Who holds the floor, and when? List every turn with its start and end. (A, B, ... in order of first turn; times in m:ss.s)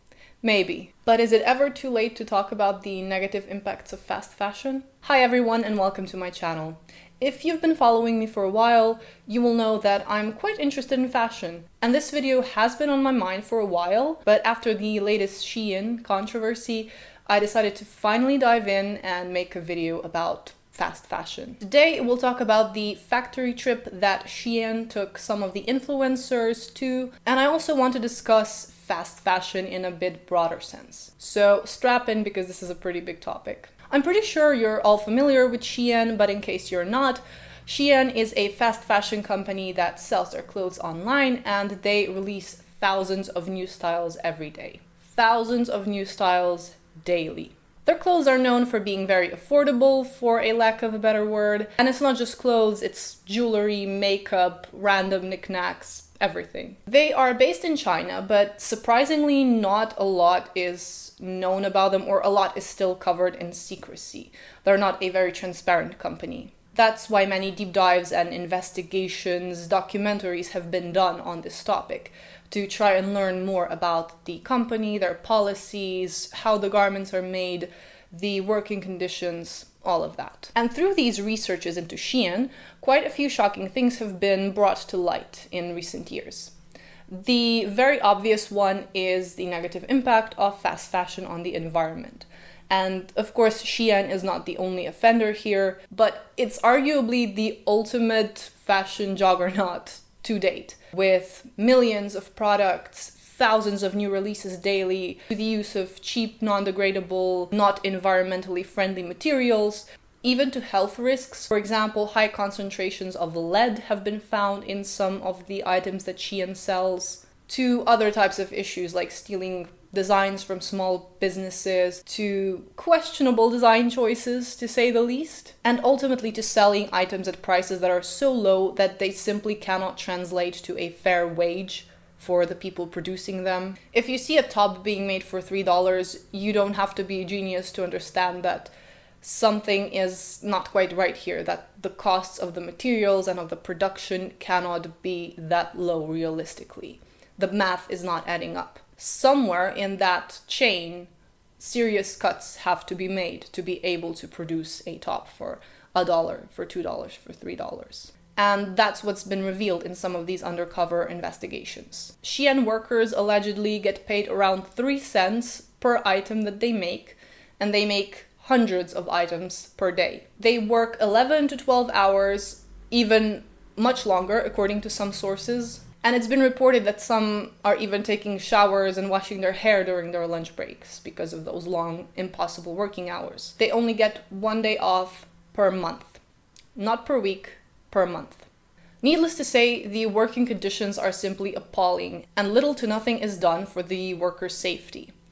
0:00.4-1:26.5 A
1:27.1-3:06.2 A
3:06.8-3:08.5 A
3:09.0-3:15.1 A